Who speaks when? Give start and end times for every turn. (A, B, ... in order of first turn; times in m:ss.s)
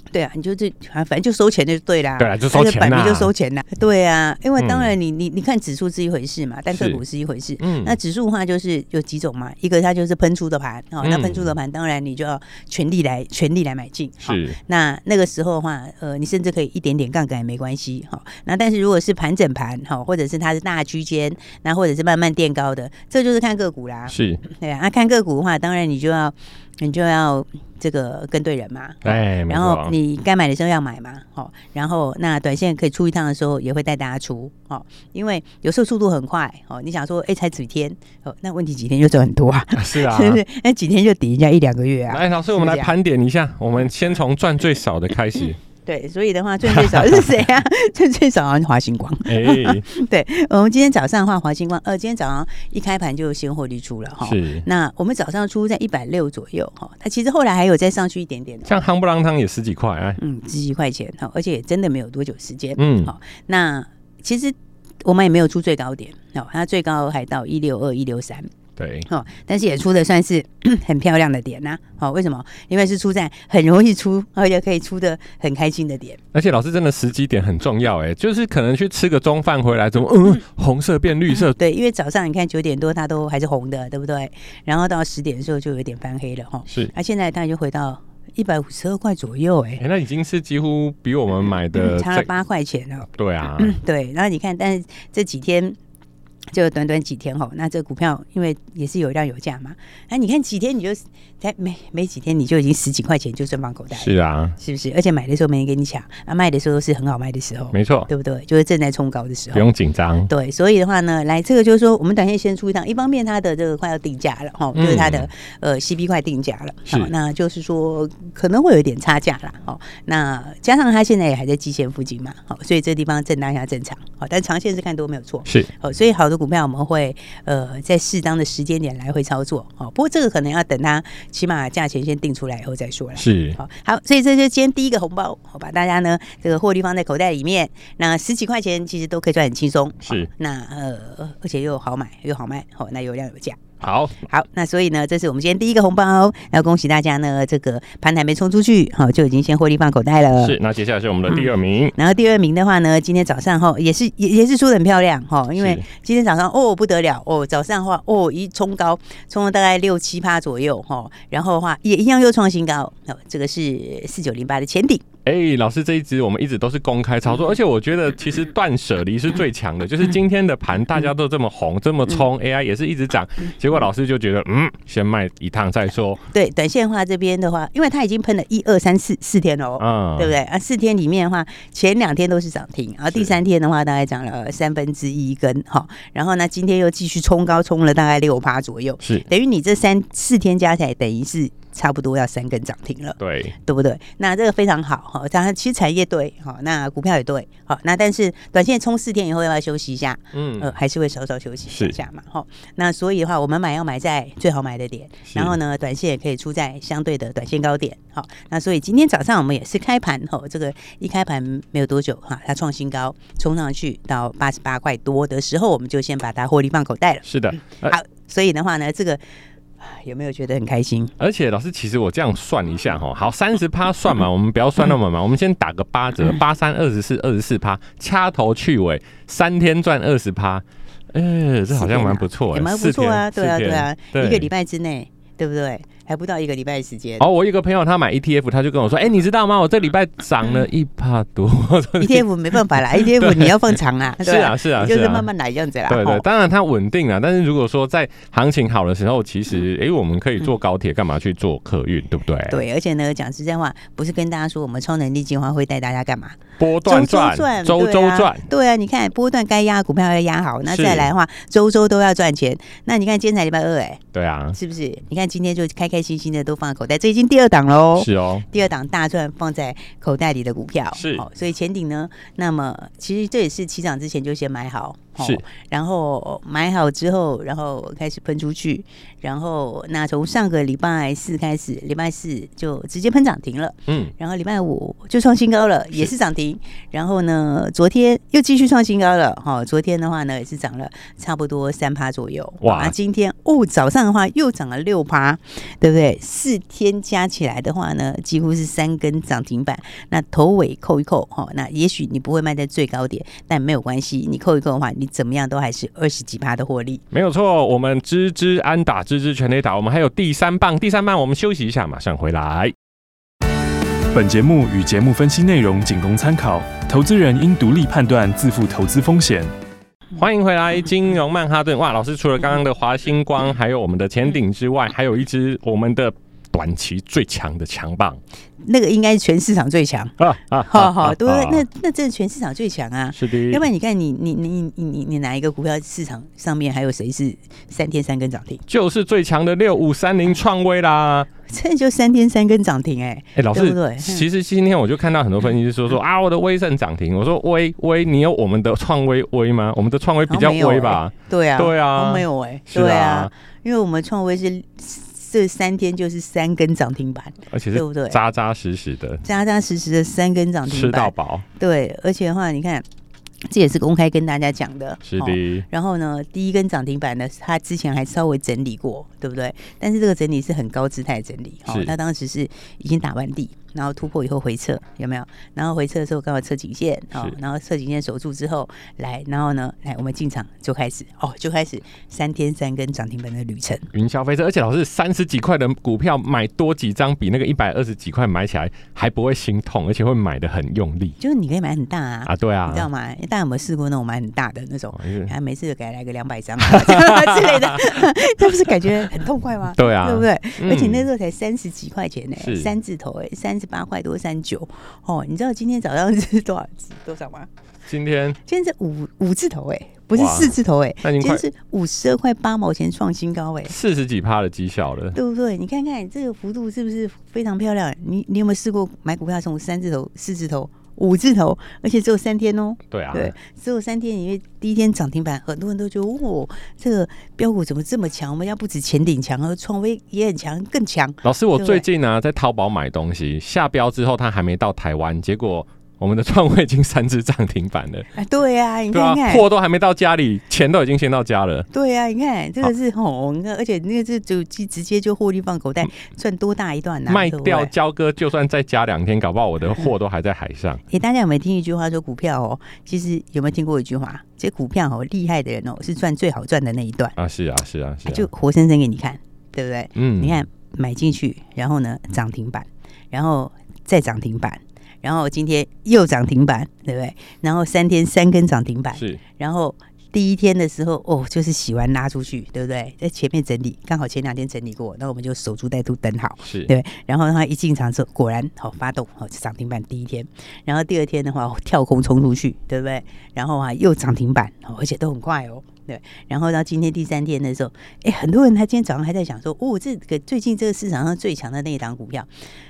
0:00.1-0:42.9 A
0:02.2-0:03.3 B
0:04.6-0:05.0 B
0:06.7-0:07.0 B
0:07.6-0:08.0 B
0:11.0-0:11.5 B
0:14.2-0:14.6 B
0:24.1-0:24.4 B
0:29.0-0:29.9 B
0:39.8-0:40.4 B
0:42.1-0:45.6 B
0:45.8-0:58.8 A
0:46.7-0:47.2 B
0:49.2-0:49.8 B
0:54.2-0:54.6 B
0:58.6-1:00.2 B
1:00.2-1:08.5 A
1:02.8-1:03.1 B
1:08.8-1:09.1 B
1:09.1-1:16.2 A
1:16.3-1:21.6 B
1:21.4-1:29.8 A
1:29.8-1:32.3 B
1:31.8-1:35.8 A
1:33.1-1:33.8 B
1:36.5-1:49.6 A
1:43.9-1:44.6 B
1:47.7-1:48.1 B
1:49.5-1:50.3 B
1:50.3-2:23.7 A
1:54.7-1:55.3 B
2:05.4-2:05.7 B
2:13.2-2:13.6 B
2:20.0-2:20.3 B
2:23.8-2:24.2 B
2:24.2-2:30.6 A
2:30.4-2:32.0 B
2:31.9-2:45.0 A
2:35.5-2:35.8 B
2:45.2-2:56.2 B
2:56.3-3:39.2 A
2:59.8-3:00.4 B
3:13.2-3:13.5 B
3:20.3-3:20.7 B
3:21.7-3:22.0 B
3:25.3-3:25.6 B
3:37.2-3:38.0 B
3:39.8-3:41.1 A
3:41.2-3:54.5 B
3:51.7-3:57.2 A
3:57.2-4:05.3 B
4:02.0-4:06.2 A
4:05.9-4:12.6 B
4:12.5-4:24.0 A
4:16.6-4:18.4 B
4:20.6-4:21.1 B
4:24.1-4:24.6 B
4:24.5-5:07.0 A
4:28.0-4:28.4 B
4:30.9-4:31.2 B
4:35.2-4:35.4 B
4:52.6-4:52.9 B
5:07.1-5:12.7 B
5:14.1-5:19.5 C
5:20.2-5:28.2 B
5:28.6-5:38.6 A
5:30.2-5:31.6 B
5:33.1-5:33.6 B
5:38.7-5:41.3 B
5:41.5-5:44.3 A
5:43.4-5:53.3 B
5:50.3-5:58.2 A
5:57.5-5:59.2 B
5:59.2-6:02.8 A
6:00.6-6:01.4 B
6:03.5-6:23.9 A
6:05.0-6:05.6 B
6:11.7-6:11.9 B
6:23.9-6:31.2 B
6:31.2-6:47.5 A
6:32.2-6:32.9 B
6:34.9-6:35.3 B
6:36.6-6:37.9 B
6:39.7-6:41.1 B
6:42.4-6:42.7 B
6:47.9-6:48.4 B
6:48.4-6:53.7 A
6:50.1-6:51.4 B
6:53.6-6:55.2 B
6:55.1-7:11.8 A
7:02.9-7:03.3 B
7:11.2-7:18.1 B
7:18.2-7:19.4 A
7:18.9-7:21.7 B
7:21.7-7:27.7 A
7:27.1-7:30.8 B
7:30.9-7:37.1 A
7:37.2-7:38.3 B
7:38.0-8:12.3 A
7:40.0-7:40.4 B
7:48.9-7:49.2 B
7:56.4-7:56.7 B